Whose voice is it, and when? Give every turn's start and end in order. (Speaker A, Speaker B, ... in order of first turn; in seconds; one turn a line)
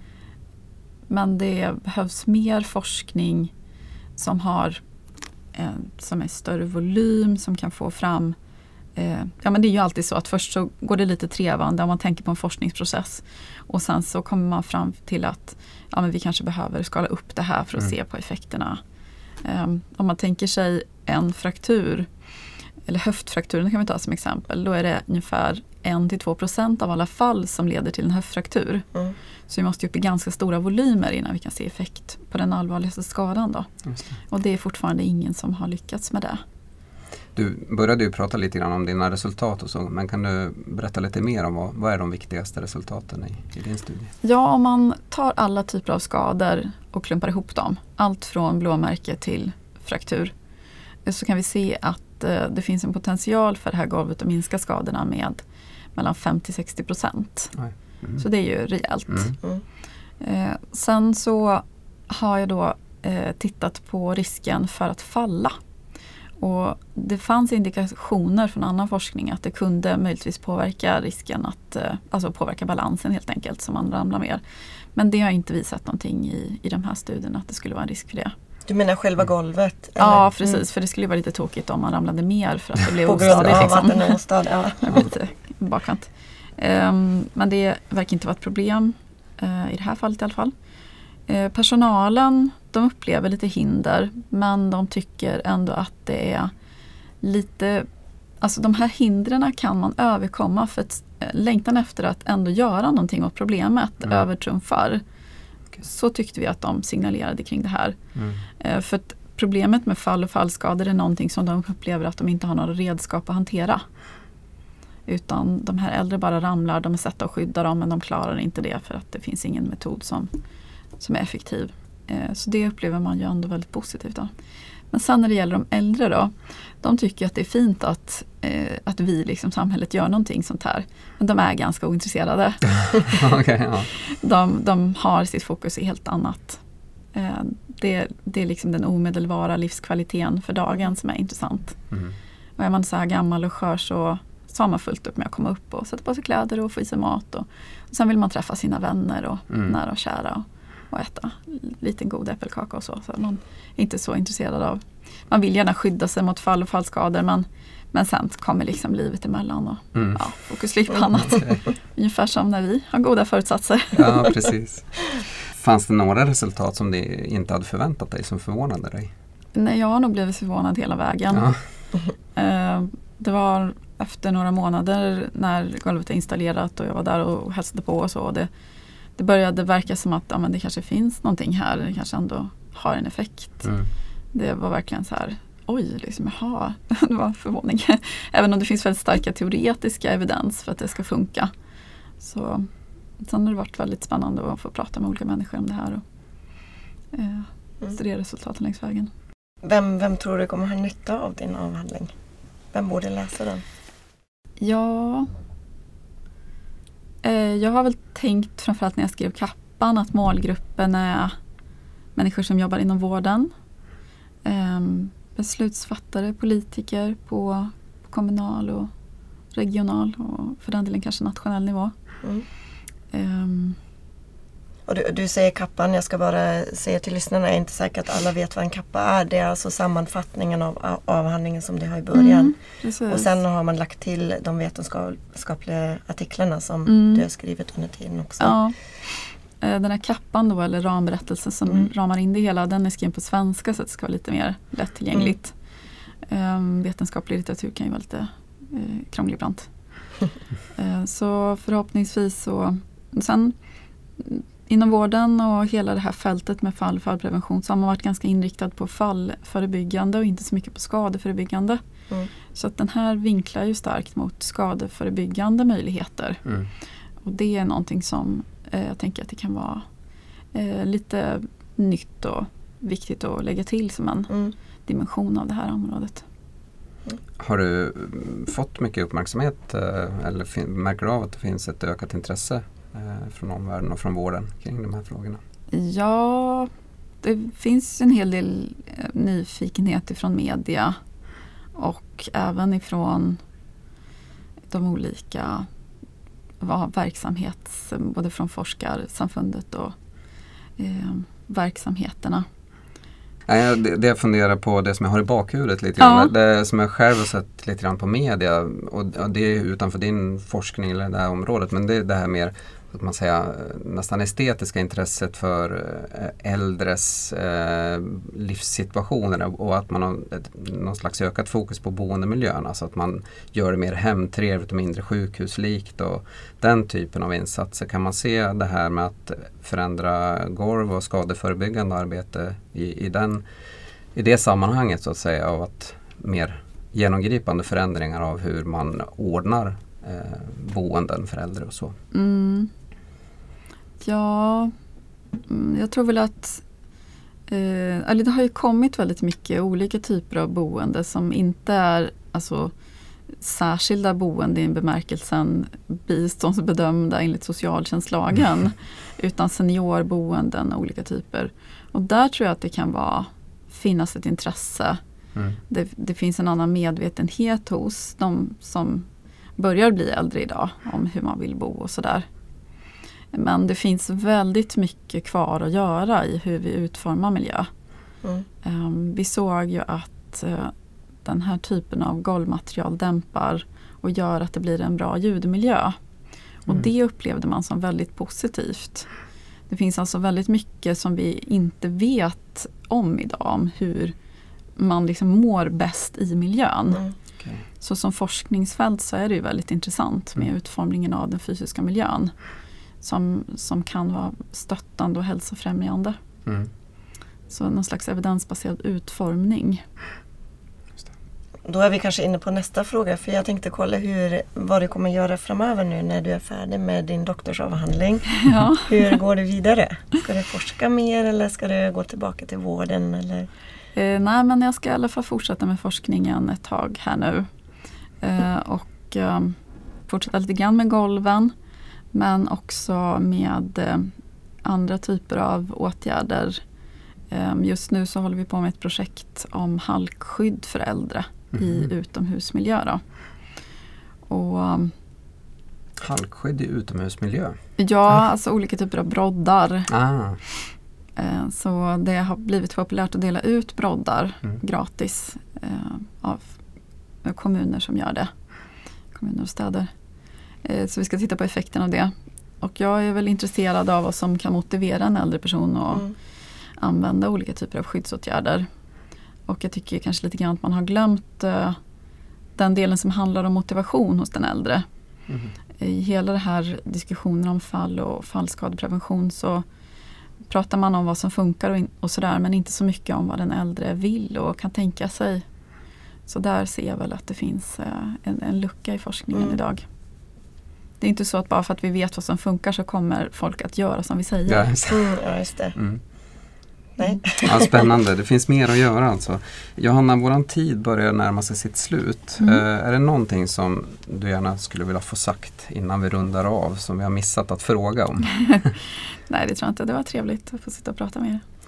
Speaker A: 1.1-3.5
Speaker A: 4.2-4.8
Speaker A: 5.5-8.3
Speaker A: 8.9-18.8
Speaker A: 19.4-22.1
Speaker A: 22.8-28.9
Speaker A: 29.5-33.7
Speaker B: 33.9-34.1
Speaker A: 34.3-36.4
Speaker B: 37.3-44.1
Speaker A: 44.2-50.3
Speaker A: 51.0-55.4
Speaker A: 55.9-57.6
Speaker B: 57.6-58.2
Speaker A: 58.2-59.3
Speaker B: 59.1-59.3
Speaker A: 60.2-65.5
Speaker A: 66.4-74.4
Speaker A: 74.9-78.3
Speaker C: 78.7-80.6
Speaker A: 80.0-84.2
Speaker C: 83.0-85.0
Speaker B: 83.4-83.7
Speaker A: 84.8-90.5
Speaker A: 91.3-96.5
Speaker A: 97.2-97.8
Speaker A: 98.4-105.0
Speaker A: 105.8-108.0
Speaker B: 108.1-108.4
Speaker A: 108.6-113.8
Speaker A: 115.1-120.3
Speaker A: 121.0-124.3
Speaker A: 124.9-133.1
Speaker B: 132.8-133.9
Speaker A: 134.0-136.6
Speaker A: 137.1-141.8
Speaker B: 141.9-142.2
Speaker A: 142.6-164.3
Speaker B: 149.5-149.8
Speaker B: 159.9-160.2
Speaker B: 161.1-161.6
Speaker B: 163.9-169.1
Speaker A: 169.5-171.5
Speaker B: 171.3-171.6
Speaker A: 172.3-178.5
Speaker A: 179.2-183.7
Speaker A: 184.3-191.5
Speaker A: 192.2-192.7
Speaker A: 193.2-196.0
Speaker A: 197.1-199.1
Speaker C: 199.6-202.1
Speaker C: 202.7-203.6
Speaker A: 204.6-205.3
Speaker A: 207.2-211.3
Speaker A: 212.1-213.5
Speaker A: 214.4-218.9
Speaker A: 219.5-221.9
Speaker A: 223.1-223.8
Speaker C: 224.9-232.5
Speaker A: 232.1-233.4
Speaker C: 233.1-238.6
Speaker A: 236.8-237.2
Speaker A: 238.4-245.5
Speaker A: 246.3-249.7
Speaker A: 250.7-253.5
Speaker A: 254.2-261.8
Speaker A: 262.5-266.4
Speaker A: 267.2-269.8
Speaker A: 270.5-274.3
Speaker A: 274.9-276.2
Speaker B: 277.4-285.4
Speaker A: 285.7-286.7
Speaker A: 287.2-290.9
Speaker A: 291.7-293.4
Speaker A: 294.7-295.6
Speaker A: 296.6-299.9
Speaker A: 300.8-302.4
Speaker B: 303.5-333.4
Speaker A: 306.0-306.3
Speaker B: 334.1-341.9
Speaker A: 342.1-342.7
Speaker A: 344.0-344.7
Speaker A: 345.5-346.6
Speaker A: 347.5-352.7
Speaker A: 353.4-365.0
Speaker A: 365.7-372.2
Speaker A: 373.3-377.7
Speaker A: 378.6-380.7
Speaker A: 381.2-385.9
Speaker A: 386.6-389.1
Speaker A: 389.7-394.1
Speaker A: 394.8-397.0
Speaker B: 397.4-397.6
Speaker A: 397.8-402.3
Speaker A: 403.0-406.2
Speaker A: 407.5-409.8
Speaker C: 411.6-423.5
Speaker A: 418.5-418.9
Speaker A: 423.9-427.5
Speaker A: 428.2-429.6
Speaker A: 430.1-431.5
Speaker A: 432.1-434.1
Speaker A: 434.6-436.6
Speaker A: 437.3-443.0
Speaker B: 441.5-441.9
Speaker A: 444.3-444.9
Speaker B: 446.0-447.6
Speaker A: 447.8-449.9
Speaker B: 449.9-450.4
Speaker A: 451.1-456.6
Speaker A: 457.2-458.3
Speaker A: 459.1-459.9
Speaker A: 460.6-466.1
Speaker A: 466.8-468.7
Speaker A: 469.5-471.8
Speaker A: 472.6-474.8
Speaker A: 475.8-479.6
Speaker A: 480.5-485.4
Speaker A: 486.3-489.8
Speaker A: 491.0-494.7
Speaker B: 494.4-495.1
Speaker C: 494.9-495.7
Speaker B: 495.7-496.0
Speaker C: 497.0-497.9
Speaker B: 497.4-508.7
Speaker A: 509.3-511.4